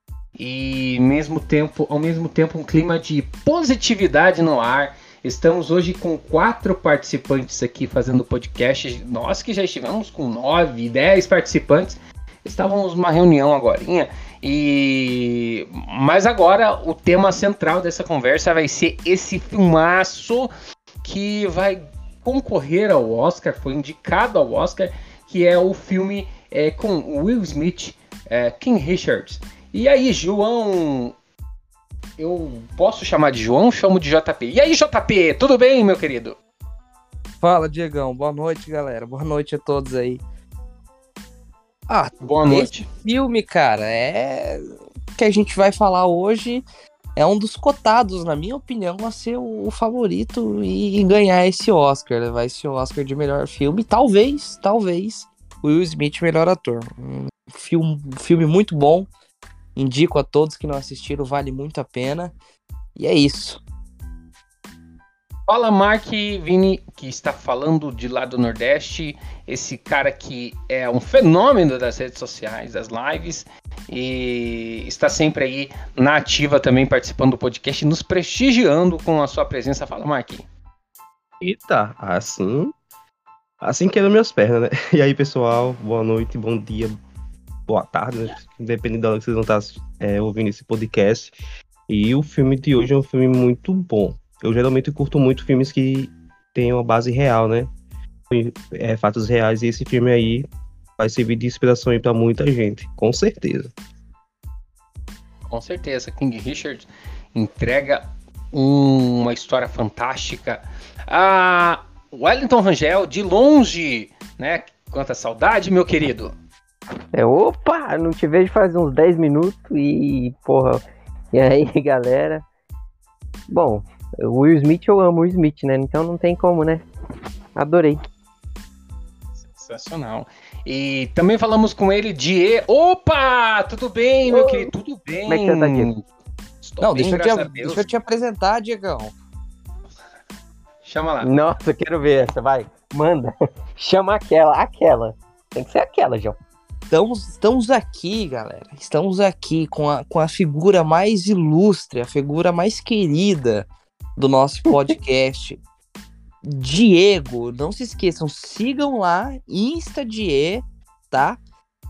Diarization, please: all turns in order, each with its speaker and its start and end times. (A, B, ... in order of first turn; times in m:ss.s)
0:00.4-0:20.5 A
0:21.0-0:31.1 A
0:32.2-0:36.4 A
0:37.4-0:40.2 B
0:41.9-0:46.6 B
0:42.2-0:42.9 A
0:47.2-0:59.1 B
0:59.8-1:02.3 B
1:03.0-1:03.6 B
1:05.5-1:20.5 A
1:21.4-1:22.7 C
1:23.6-1:27.0 C
1:27.7-1:31.3 C
1:31.9-1:37.7 C
1:38.3-1:40.5 C
1:41.0-1:43.7 C
1:45.5-1:56.3 A
1:57.1-2:02.4 D
2:03.5-2:06.8 D
2:07.6-2:08.0 D
2:09.4-2:16.0 A
2:14.3-2:14.7 D
2:15.3-2:15.9 D
2:16.6-2:17.8 A
2:16.8-2:19.1 B
2:20.8-2:21.3 A
2:21.2-2:26.4 D
2:26.9-2:35.6 B
2:36.4-2:41.4 B